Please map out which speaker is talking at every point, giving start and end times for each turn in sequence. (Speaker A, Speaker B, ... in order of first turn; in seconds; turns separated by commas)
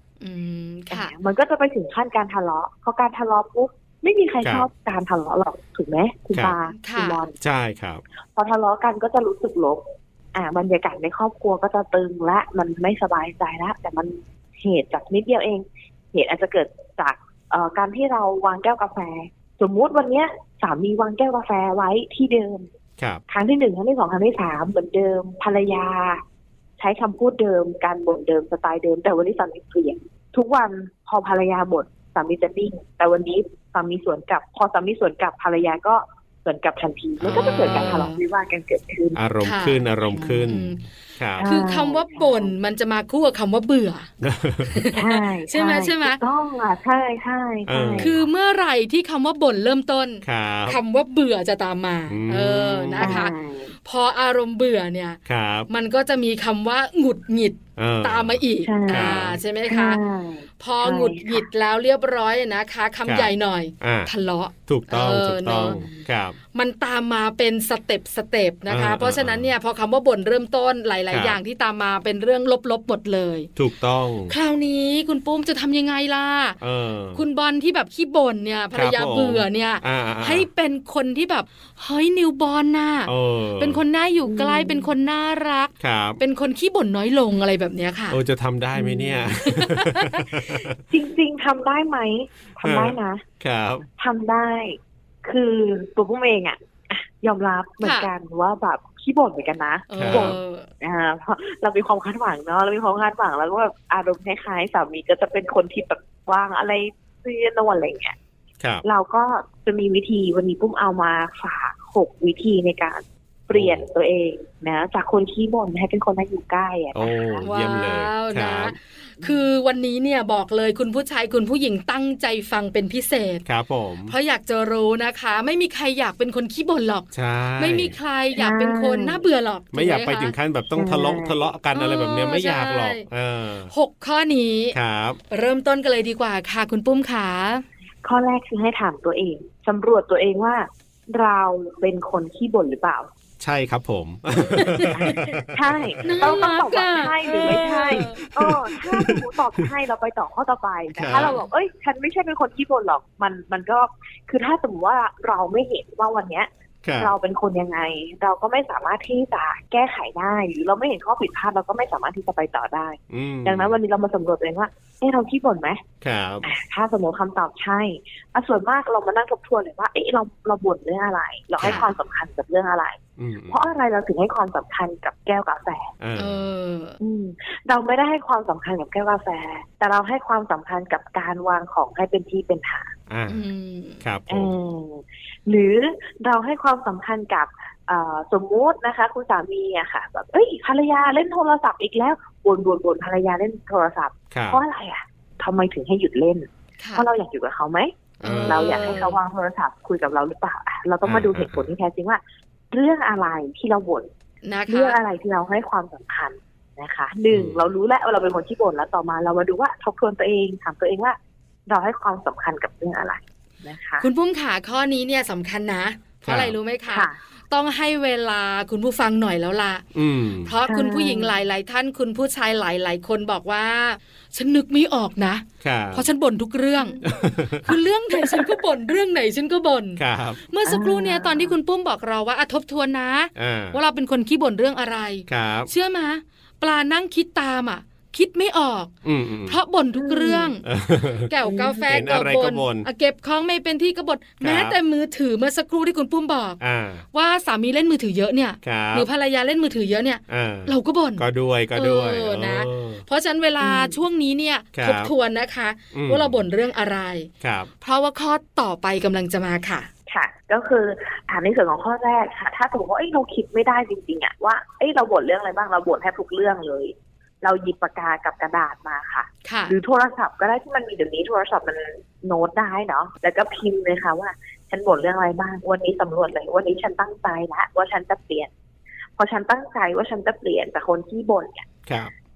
Speaker A: 0.2-1.1, Speaker B: 0.9-7.4, Speaker C: 4.4-4.7, Speaker A: 6.7-7.2, Speaker C: 7.4-8.0, Speaker B: 8.3-9.8, Speaker B: 10.3-22.7, Speaker B: 23.3-26.2, Speaker B: 26.8-39.2, Speaker C: 37.2-38.1, Speaker A: 37.3-38.2, Speaker C: 39.1-41.4, Speaker A: 39.4-40.9, Speaker B: 41.4-42.5, Speaker A: 41.4-44.1, Speaker C: 44.2-44.9, Speaker A: 44.7-46.2, Speaker B: 44.9-48.1, Speaker C: 47.7-48.3, Speaker A: 48.0-60.0, Speaker C: 50.2-50.8, Speaker C: 52.1-53.3, Speaker B: 53.0-53.7, Speaker C: 55.2-55.7, Speaker C: 57.8-59.4, Speaker B: 58.6-61.5, Speaker A: 60.6-65.8, Speaker C: 63.0-64.1, Speaker C: 64.7-66.4, Speaker B: 65.7-66.0, Speaker A: 66.5-73.5, Speaker C: 68.7-69.5, Speaker C: 71.1-71.4, Speaker C: 73.5-74.3, Speaker A: 74.3-76.6, Speaker C: 76.6-77.2, Speaker A: 77.1-88.2, Speaker C: 78.7-80.5, Speaker C: 83.0-83.8, Speaker B: 84.2-84.9, Speaker C: 85.8-86.2, Speaker C: 88.1-90.8, Speaker B: 88.7-89.2, Speaker A: 89.4-90.6, Speaker B: 90.9-93.2, Speaker C: 92.6-93.9, Speaker B: 94.0-108.2, Speaker A: 97.8-98.1, Speaker A: 99.9-100.7, Speaker C: 100.0-100.3, Speaker B: 108.8-117.5, Speaker C: 113.5-113.8, Speaker C: 116.9-118.7, Speaker A: 117.4-123.4, Speaker C: 123.4-124.1, Speaker A: 124.1-130.3, Speaker C: 127.1-128.0, Speaker B: 128.3-129.2, Speaker C: 129.7-133.7, Speaker B: 130.8-131.5, Speaker A: 131.7-133.1, Speaker A: 133.7-134.8, Speaker C: 134.7-135.2, Speaker A: 135.3-137.6, Speaker B: 138.0-143.1, Speaker C: 143.4-146.5, Speaker A: 144.5-145.2, Speaker B: 144.9-156.5, Speaker A: 146.0-148.2, Speaker C: 147.5-149.7, Speaker C: 150.9-151.4, Speaker A: 151.1-151.4, Speaker C: 156.8-157.1, Speaker B: 157.0-165.8, Speaker C: 163.1-163.8, Speaker C: 166.0-166.4, Speaker B: 166.4-175.9, Speaker C: 171.6-171.8, Speaker A: 171.6-171.9, Speaker C: 173.2-173.7, Speaker C: 176.0-176.4, Speaker A: 176.2-177.0, Speaker B: 177.0-182.9, Speaker C: 183.1-183.4, Speaker A: 183.3-184.0, Speaker C: 184.0-184.5, Speaker B: 184.3-202.2, Speaker C: 194.3-194.6, Speaker A: 196.8-197.1, Speaker A: 198.2-199.2, Speaker C: 198.2-198.9, Speaker C: 201.0-201.7, Speaker B: 202.7-204.1, Speaker A: 204.4-205.0, Speaker B: 204.7-214.1, Speaker C: 207.3-207.7, Speaker A: 214.0-219.8, Speaker C: 216.2-216.5, Speaker B: 216.9-217.2, Speaker C: 219.9-220.5, Speaker A: 220.4-227.0, Speaker B: 220.7-221.3, Speaker C: 225.6-226.1, Speaker B: 226.8-227.1, Speaker C: 227.0-227.8, Speaker A: 227.6-238.9, Speaker B: 228.1-228.5, Speaker C: 230.0-230.4, Speaker B: 230.7-231.5, Speaker C: 233.3-233.8, Speaker C: 235.3-235.7, Speaker C: 239.0-239.6, Speaker A: 239.4-240.6, Speaker B: 240.0-240.5, Speaker C: 240.6-241.3, Speaker A: 241.3-246.6, Speaker B: 241.4-241.8, Speaker C: 241.8-242.9, Speaker C: 244.4-244.8, Speaker C: 246.6-247.0, Speaker A: 247.1-257.3, Speaker C: 248.6-249.1, Speaker C: 250.3-253.0, Speaker B: 253.6-254.0, Speaker C: 254.7-255.1, Speaker C: 255.9-256.4, Speaker C: 257.4-257.7, Speaker A: 257.8-259.9, Speaker B: 260.1-278.5, Speaker A: 269.4-269.7, Speaker B: 279.2-281.7, Speaker C: 281.9-282.1